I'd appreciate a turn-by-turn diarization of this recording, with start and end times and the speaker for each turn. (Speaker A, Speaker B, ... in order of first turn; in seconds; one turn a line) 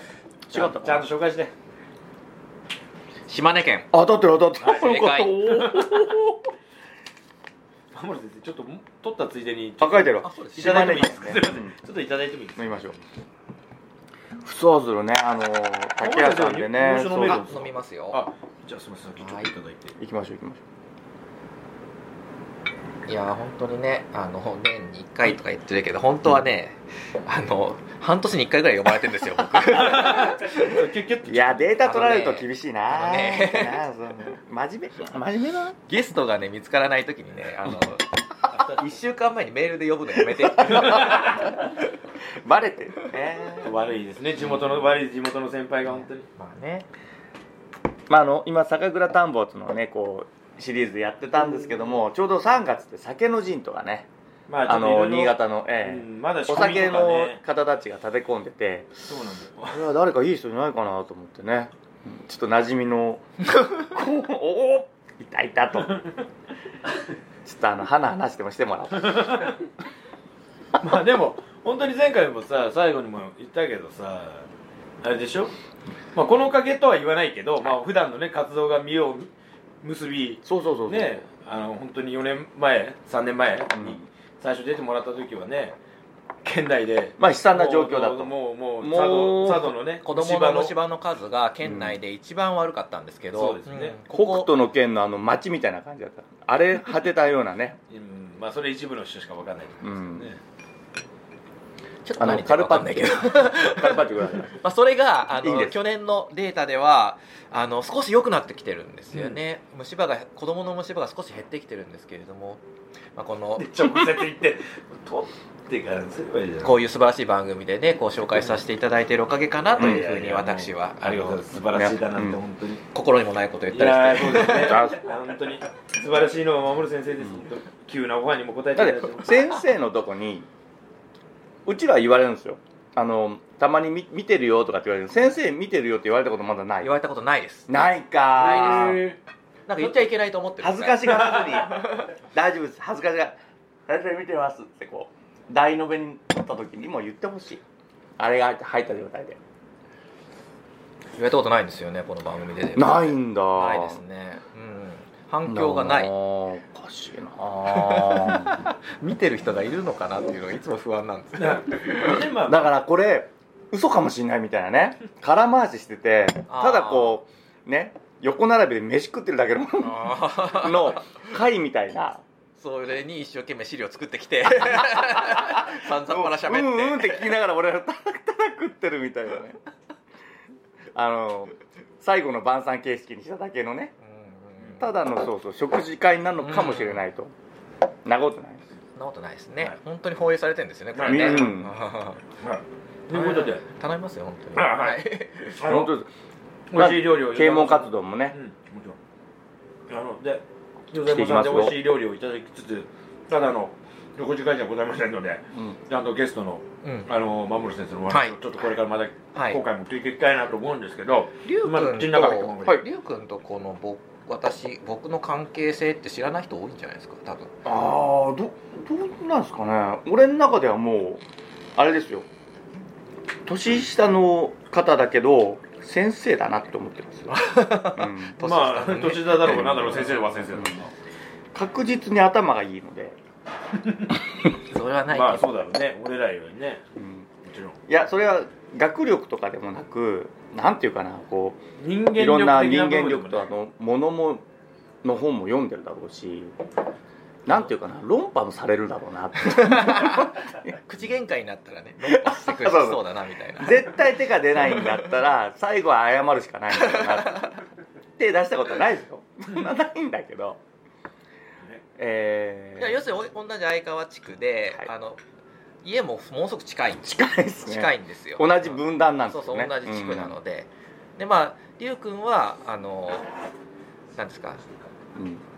Speaker A: 0.5-1.1
Speaker B: 0.5-1.5
Speaker C: 3.3-3.9
Speaker A: 3.9-6.5
Speaker C: 4.6-5.5
Speaker B: 5.6-6.0
Speaker B: 7.9-13.0
Speaker A: 9.8-11.7
Speaker C: 10.2-11.1
Speaker A: 12.6-13.0
Speaker A: 14.4-17.5
Speaker B: 16.0-20.0
Speaker C: 17.2-18.2
Speaker C: 19.2-19.5
Speaker A: 20.0-20.6
Speaker C: 23.1-30.4
Speaker B: 29.8-31.8
Speaker A: 30.2-30.6
Speaker A: 31.3-35.8
Speaker C: 31.8-33.8
Speaker C: 35.9-41.5
Speaker A: 40.4-41.6
Speaker A: 42.4-43.7
Speaker B: 43.6-46.3
Speaker C: 45.9-46.9
Speaker A: 48.1-54.1
Speaker B: 54.5-57.4
Speaker A: 54.6-59.1
Speaker B: 59.1-59.8
Speaker A: 59.6-66.0
Speaker A: 67.5-69.5
Speaker B: 69.0-69.6
Speaker B: 70.8-74.5
Speaker B: 75.0-75.5
Speaker B: 76.1-79.3
Speaker B: 79.8-85.8
Speaker A: 80.5-81.2
Speaker A: 83.7-84.1
Speaker B: 86.4-90.8
Speaker A: 87.2-89.7
Speaker C: 90.0-94.5
Speaker A: 91.6-92.0
Speaker B: 93.3-94.0
Speaker A: 94.1-97.8
Speaker B: 97.9-100.4
Speaker A: 99.8-100.3
Speaker C: 102.0-112.6
Speaker A: 102.2-104.6
Speaker A: 105.4-105.8
Speaker B: 109.1-109.4
Speaker C: 113.2-113.7
Speaker B: 113.6-116.8
Speaker C: 116.6-121.5
Speaker B: 119.8-122.8
Speaker A: 121.7-122.4
Speaker C: 122.9-124.9
Speaker B: 123.7-129.4
Speaker A: 124.6-125.0
Speaker A: 128.8-130.5
Speaker A: 131.7-136.9
Speaker C: 136.8-137.8
Speaker A: 137.7-139.0
Speaker B: 138.4-139.2
Speaker C: 138.4-139.1
Speaker C: 139.7-142.1
Speaker A: 140.6-143.4
Speaker B: 141.1-141.6
Speaker A: 143.9-147.6
Speaker A: 148.2-149.4
Speaker C: 151.2-156.1
Speaker A: 152.8-154.0
Speaker A: 155.4-158.6
Speaker C: 157.7-162.2
Speaker A: 160.3-160.6
Speaker B: 161.4-162.7
Speaker A: 162.4-172.2
Speaker C: 166.5-167.2
Speaker C: 169.8-171.3
Speaker C: 172.6-177.3
Speaker A: 174.8-179.6
Speaker A: 180.9-183.9
Speaker C: 184.0-184.8
Speaker A: 184.8-187.3
Speaker C: 186.4-187.0
Speaker A: 188.1-188.7
Speaker C: 189.0-192.2
Speaker B: 190.9-191.6
Speaker A: 191.1-191.8
Speaker B: 192.4-193.6
Speaker C: 193.1-195.6
Speaker B: 194.6-195.0
Speaker B: 195.6-195.9
Speaker A: 195.6-196.1
Speaker B: 196.7-199.0
Speaker A: 196.7-198.4
Speaker B: 199.9-212.8
Speaker A: 201.0-201.8
Speaker A: 205.5-205.8
Speaker C: 206.8-207.1
Speaker C: 208.1-208.4
Speaker C: 209.3-209.6
Speaker C: 211.4-217.5
Speaker A: 217.7-221.2
Speaker A: 221.8-222.3
Speaker A: 223.5-228.4
Speaker C: 227.3-229.8
Speaker B: 228.4-230.9
Speaker A: 229.4-230.8
Speaker A: 231.5-233.2
Speaker B: 233.8-234.5
Speaker C: 234.7-235.5
Speaker B: 235.1-236.8
Speaker A: 237.0-237.3
Speaker B: 237.4-237.8
Speaker A: 237.9-241.6
Speaker B: 241.8-243.4
Speaker A: 242.2-244.4
Speaker A: 245.0-246.5
Speaker A: 247.5-250.8
Speaker C: 249.4-253.9
Speaker A: 252.0-253.1
Speaker A: 253.6-257.5
Speaker C: 254.6-255.1
Speaker C: 256.8-257.6
Speaker A: 258.2-260.6
Speaker A: 262.0-263.0
Speaker C: 262.8-265.2
Speaker C: 265.8-267.1
Speaker A: 267.0-270.4
Speaker C: 267.6-273.3
Speaker C: 274.2-274.6
Speaker A: 275.1-275.4